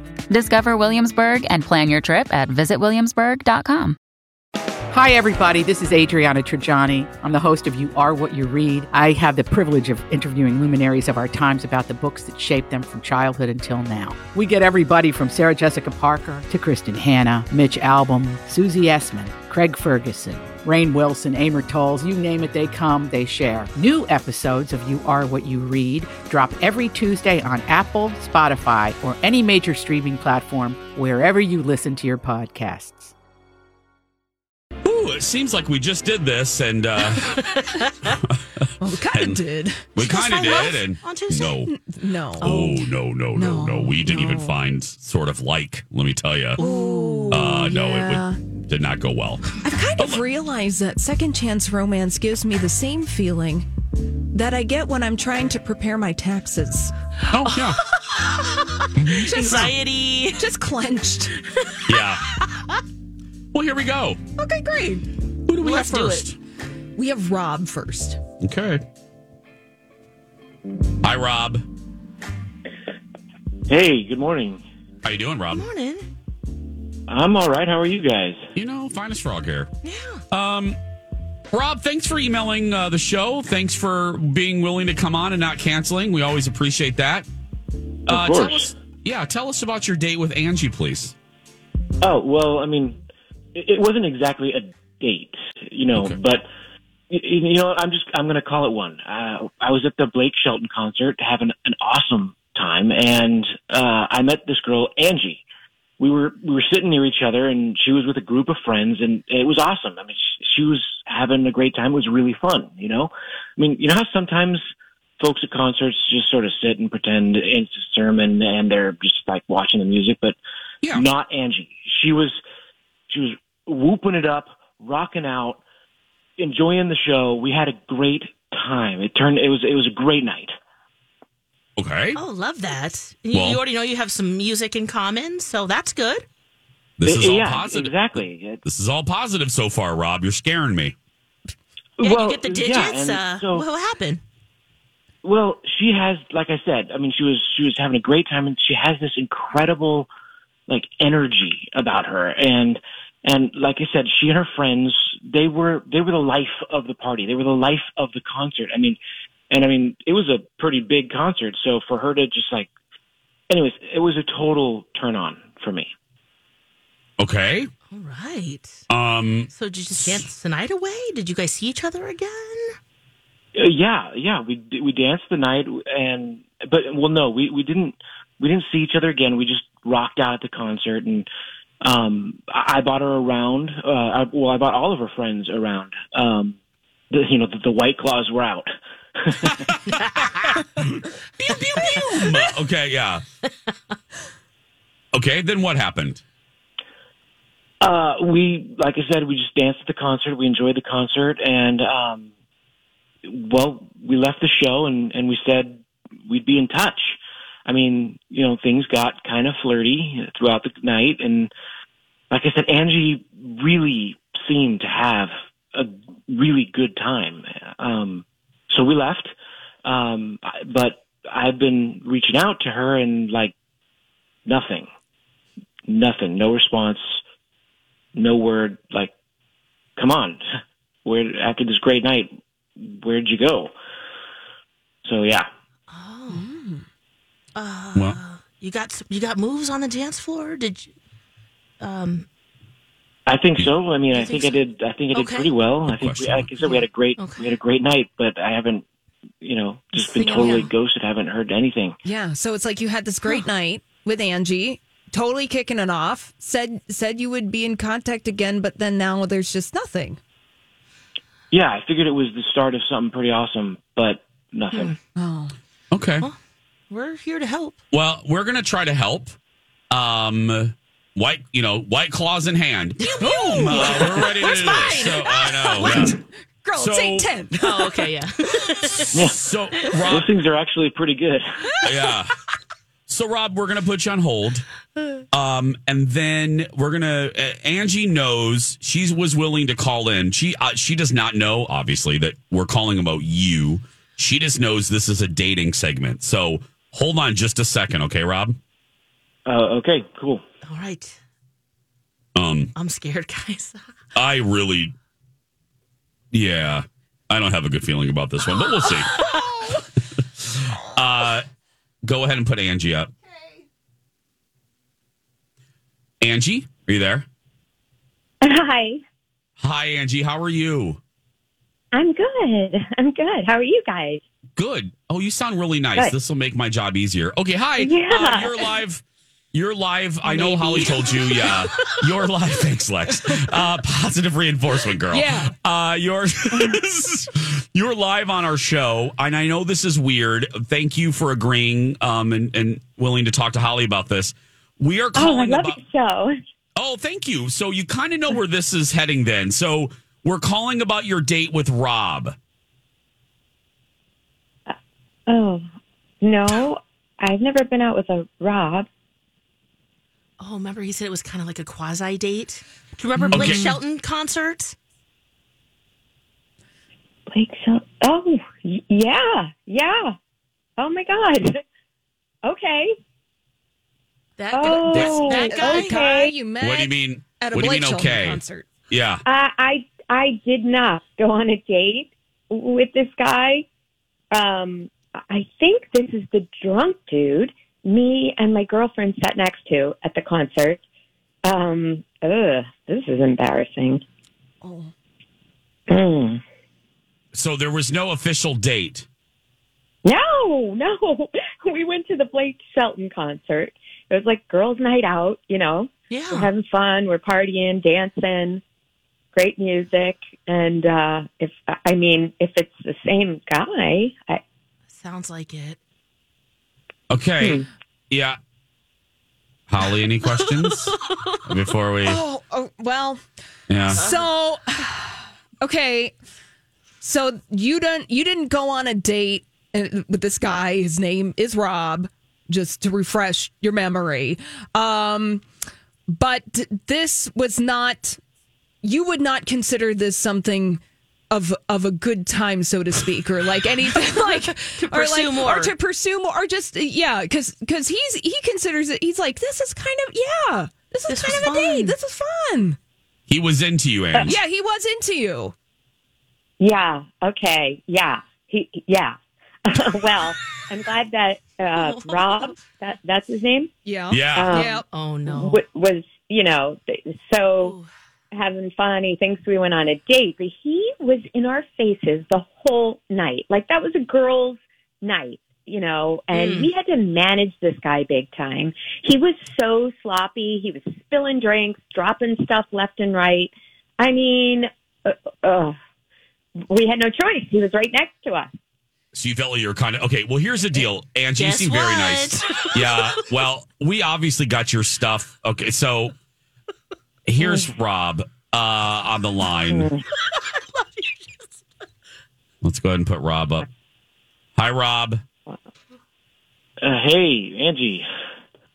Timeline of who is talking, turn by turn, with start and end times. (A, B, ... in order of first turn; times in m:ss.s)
0:00.3-0:04.0 A
0:04.9-0:33.1 B
0:34.8-0:37.4 C
0:37.3-0:37.6 D
0:38.3-0:39.4 C
0:38.8-0:40.8 E
0:39.9-0:41.7 C
0:40.1-0:41.5 D
0:41.6-0:42.5 E
0:42.4-0:46.6 C
0:42.4-0:42.8 D
0:43.3-0:44.5 E
0:46.6-0:48.4 E
0:47.3-0:50.2 C
0:49.6-0:53.7 E
0:54.3-0:56.9 E
0:57.3-0:57.8 C
0:57.6-1:00.4 D
0:59.0-0:59.7 C
0:59.1-0:59.7 E
1:00.3-1:01.3 E
1:01.7-1:02.3 D
1:01.9-1:02.2 C
1:03.5-1:04.2 C
1:04.4-1:05.1 E
1:05.5-1:06.4 C
1:05.6-1:06.3 D
1:07.0-1:08.2 E
1:08.4-1:08.8 C
1:11.0-1:11.6 C
1:13.7-1:14.6 F
1:15.0-1:15.7 C
1:15.5-1:16.1 D
1:17.1-1:18.4 F
1:18.6-1:19.7 C
1:19.8-1:20.2 D
1:20.3-1:20.8 C
1:21.5-1:27.2 C
1:28.1-1:28.7 F
1:28.1-1:31.2 C
1:32.0-1:33.0 F
1:33.5-1:36.5 F
1:37.1-1:45.4 F
1:46.0-1:54.6 F
1:55.2-2:00.4 F
2:00.9-2:02.4 F
2:03.1-2:05.6 F
2:06.4-2:10.5 F
2:11.8-2:12.2 C
2:12.2-2:16.2 D
2:13.3-2:13.6 C
2:17.0-2:20.9 C
2:17.0-2:18.6 F
2:22.0-2:23.7 F
2:22.0-2:24.2 D
2:25.2-2:30.1 F
2:30.7-2:39.0 F
2:39.5-2:42.7 F
2:43.5-2:45.9 F
2:47.2-2:47.7 C
2:47.9-2:48.8 D
2:48.9-2:49.5 C
2:49.5-2:52.7 D
2:53.5-3:01.3 F
3:01.8-3:06.6 F
3:07.1-3:09.6 F
3:10.8-3:13.2 C
3:11.8-3:12.4 D
3:15.1-3:16.2 C
3:17.8-3:22.3 F
3:23.2-3:31.5 F
3:32.3-3:39.3 F
3:39.8-3:43.5 F
3:44.4-3:44.9 F
3:45.9-3:47.2 F
3:48.2-3:49.1 F
3:50.0-3:50.4 F
3:51.0-3:53.7 F
3:55.0-3:55.5 F
3:55.9-3:56.4 D
3:56.3-3:56.8 E
3:57.5-4:00.9 D
4:01.8-4:02.3 D
4:03.3-4:08.8 F
4:04.1-4:04.5 D
4:05.1-4:05.5 D
4:05.8-4:06.5 C
4:07.2-4:07.5 D
4:09.4-4:12.0 F
4:09.9-4:10.7 E
4:12.0-4:20.2 E
4:21.5-4:24.9 F
4:25.2-4:25.5 E
4:25.9-4:26.2 C
4:26.9-4:27.8 D
4:27.9-4:29.3 C
4:29.9-4:36.1 C
4:33.0-4:38.1 E
4:36.8-4:37.3 C
4:37.6-4:40.0 D
4:39.1-4:40.3 C
4:39.1-4:39.4 F
4:40.0-4:41.4 F
4:41.8-4:42.3 C
4:43.1-4:44.6 C
4:45.3-4:58.6 C
4:59.4-5:00.4 F
5:00.6-5:01.2 D
5:02.3-5:02.7 C
5:02.7-5:03.8 D
5:04.2-5:04.9 C
5:06.3-5:09.1 C
5:09.1-5:09.5 D
5:10.4-5:11.4 C
5:12.0-5:13.1 C
5:16.2-5:17.2 C
5:18.4-5:19.0 G
5:19.6-5:21.0 C
5:21.9-5:24.2 G
5:24.6-5:45.8 C
5:27.8-5:28.6 G
5:30.2-5:30.8 E
5:31.4-5:32.0 D
5:35.1-5:35.5 E
5:45.1-5:46.3 G
5:46.8-5:52.4 C
5:55.3-5:55.6 G
5:56.2-5:58.9 G
6:00.4-6:04.8 D
6:03.3-6:03.7 C
6:07.3-6:10.1 G
6:10.8-6:11.6 G
6:12.4-6:12.9 G
6:14.4-6:16.1 D
6:14.5-6:16.3 G
6:14.9-6:15.3 C
6:15.1-6:18.7 E
6:16.6-6:19.2 C
6:19.2-6:23.6 G
6:24.3-6:30.8 G
6:31.4-6:34.0 G
6:34.6-6:34.9 E
6:35.9-6:36.4 G
6:37.3-6:39.0 C
6:40.0-6:48.6 G
6:46.1-6:46.5 D
6:49.3-6:54.4 G
6:54.9-6:55.8 D
6:57.1-6:58.4 C
6:57.4-6:57.6 G
6:59.7-7:00.9 C
7:00.2-7:01.4 D
7:01.5-7:02.2 C
7:02.0-7:03.2 E
7:03.7-7:04.0 C
7:03.9-7:06.1 E
7:03.9-7:04.3 D
7:07.0-7:15.4 E
7:16.1-7:18.2 E
7:18.8-7:32.8 E
7:24.0-7:25.7 D
7:31.1-7:32.0 D
7:33.3-7:34.4 C
7:34.2-7:35.5 E
7:36.6-7:43.7 G
7:41.8-7:42.5 D
7:43.8-7:44.8 E
7:44.1-7:44.5 C
7:44.2-7:47.7 G
7:44.9-7:45.6 D
7:47.6-7:47.9 D
7:48.3-8:05.7 G
7:56.3-7:56.7 D
8:06.7-8:08.5 G
8:09.1-8:16.1 C
8:11.4-8:13.2 D
8:17.2-8:19.9 C
8:19.7-8:20.0 G
8:20.1-8:21.6 D
8:22.6-8:23.7 C
8:24.6-8:25.2 C
8:26.8-8:28.1 F